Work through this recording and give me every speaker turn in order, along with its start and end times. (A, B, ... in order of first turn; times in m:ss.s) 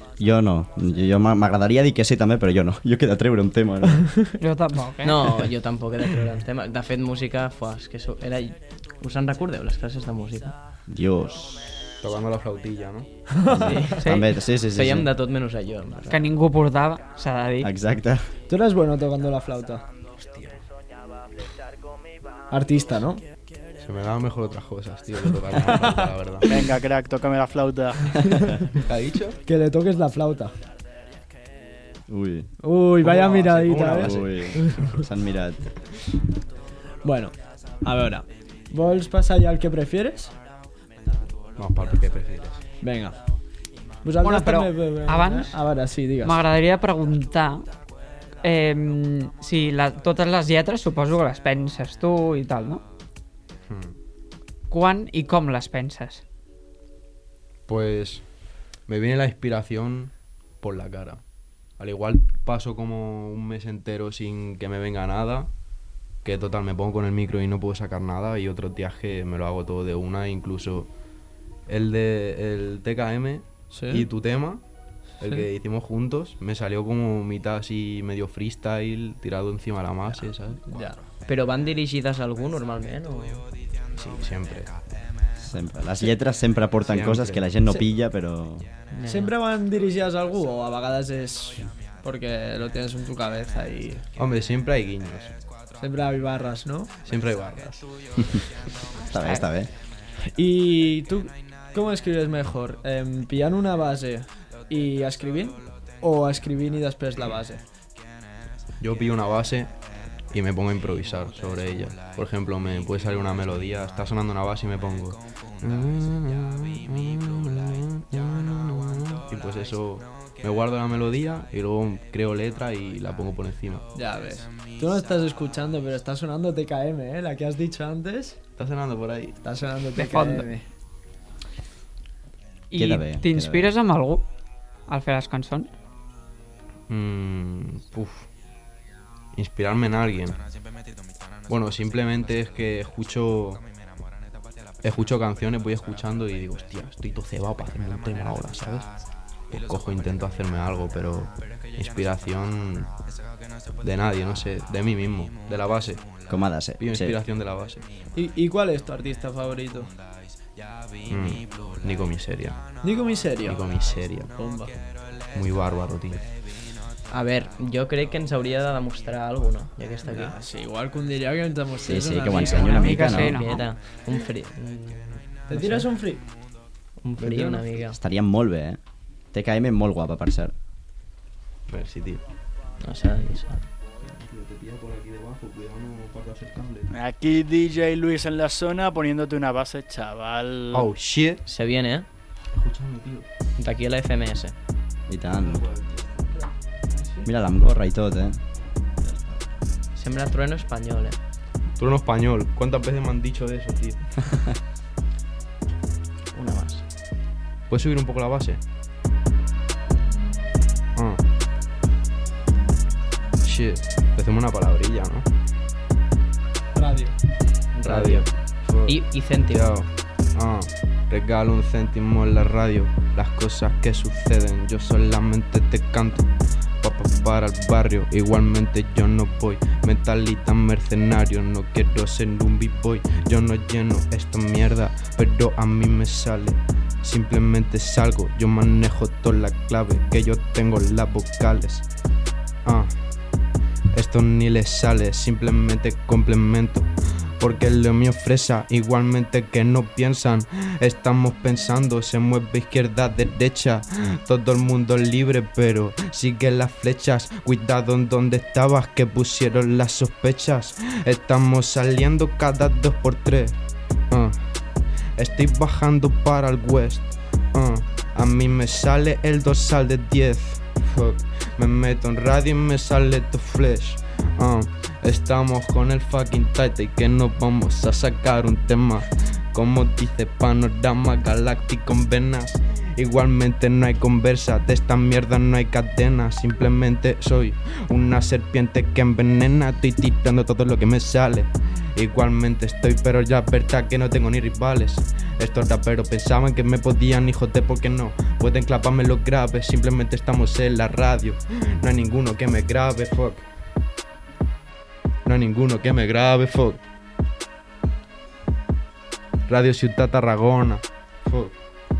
0:00.2-0:04.1 A
0:04.4-0:05.4 B
0:05.0-0:10.5 C
0:10.9-0:11.9 A
0:12.0-0:13.1 D
0:13.5-0:15.1 A
0:13.5-0:16.2 C
0:14.0-0:14.3 B
0:16.1-0:17.7 B
0:17.6-0:18.3 A
0:18.5-0:19.8 E
0:20.2-0:20.6 D
0:22.5-0:23.2 E
0:23.8-0:26.5 D
0:25.5-0:26.2 E
0:26.4-0:28.5 F
0:28.7-0:29.4 D
0:29.4-0:30.5 E
0:32.1-0:32.5 A
0:32.6-0:35.0 E
0:33.0-0:34.9 D
0:34.0-0:35.6 A
0:37.0-0:40.3 E
0:41.6-0:42.6 D
0:42.8-0:43.1 E
0:44.0-0:46.4 E
0:44.2-0:45.6 B
0:46.2-0:47.7 B
0:48.4-0:52.8 B
0:53.7-0:53.9 D
0:54.7-0:56.2 B
0:57.7-0:58.2 D
0:58.8-1:01.2 D
1:01.8-1:05.5 D
1:06.2-1:10.9 D
1:11.7-1:14.6 D
1:13.7-1:14.1 E
1:15.2-1:20.9 D
1:20.7-1:21.0 E
1:21.2-1:23.4 C
1:23.9-1:24.7 D
1:25.4-1:28.6 A
1:26.9-1:27.5 D
1:28.9-1:29.3 C
1:29.0-1:34.0 E
1:34.2-1:35.3 D
1:35.8-1:37.0 E
1:37.0-1:37.8 D
1:39.1-1:39.7 A
1:39.1-1:39.5 B
1:40.2-1:47.6 E
1:48.8-1:49.7 D
1:50.3-2:03.9 D
2:03.9-2:08.4 E
2:08.6-2:09.4 D
2:09.4-2:10.6 E
2:10.0-2:10.5 B
2:12.7-2:14.2 B
2:12.7-2:13.7 A
2:14.9-2:15.7 B
2:16.9-2:18.3 D
2:19.3-2:20.4 D
2:21.5-2:23.6 D
2:24.8-2:28.9 D
2:29.5-2:32.9 D
2:33.8-2:36.0 D
2:36.3-2:37.2 A
2:36.8-2:37.9 D
2:38.1-2:39.9 E
2:41.0-2:42.6 D
2:42.8-2:43.6 E
2:43.4-2:44.3 D
2:44.4-2:44.7 E
2:45.3-2:46.3 D
2:47.1-2:50.3 C
2:50.1-2:53.1 E
2:51.8-2:53.4 A
2:52.4-2:53.7 B
2:53.1-2:55.9 C
2:55.5-2:56.2 E
2:57.0-2:58.0 C
2:57.3-2:57.6 E
2:57.9-2:58.8 A
2:59.3-3:00.5 A
3:01.7-3:02.2 D
3:02.8-3:03.7 C
3:04.0-3:06.9 D
3:06.9-3:10.9 F
3:10.7-3:11.4 D
3:11.5-3:12.0 C
3:12.5-3:13.2 D
3:13.6-3:14.5 C
3:15.1-3:15.6 A
3:15.4-3:16.3 D
3:16.9-3:17.3 E
3:17.2-3:18.4 A
3:19.1-3:19.4 E
3:19.9-3:21.2 C
3:21.8-3:24.1 D
3:26.3-3:26.8 C
3:27.7-3:28.6 D
3:31.0-3:31.2 D
3:33.4-3:35.2 D
3:36.7-3:37.2 E
3:37.7-3:38.3 C
3:37.8-3:46.3 D
3:38.8-3:39.6 C
3:46.8-4:01.8 D
4:02.6-4:03.0 D
4:03.9-4:06.9 D
4:07.4-4:23.6 D
4:24.1-4:24.4 D
4:25.2-5:03.5 D
5:05.2-5:06.8 D
5:09.5-5:11.5 D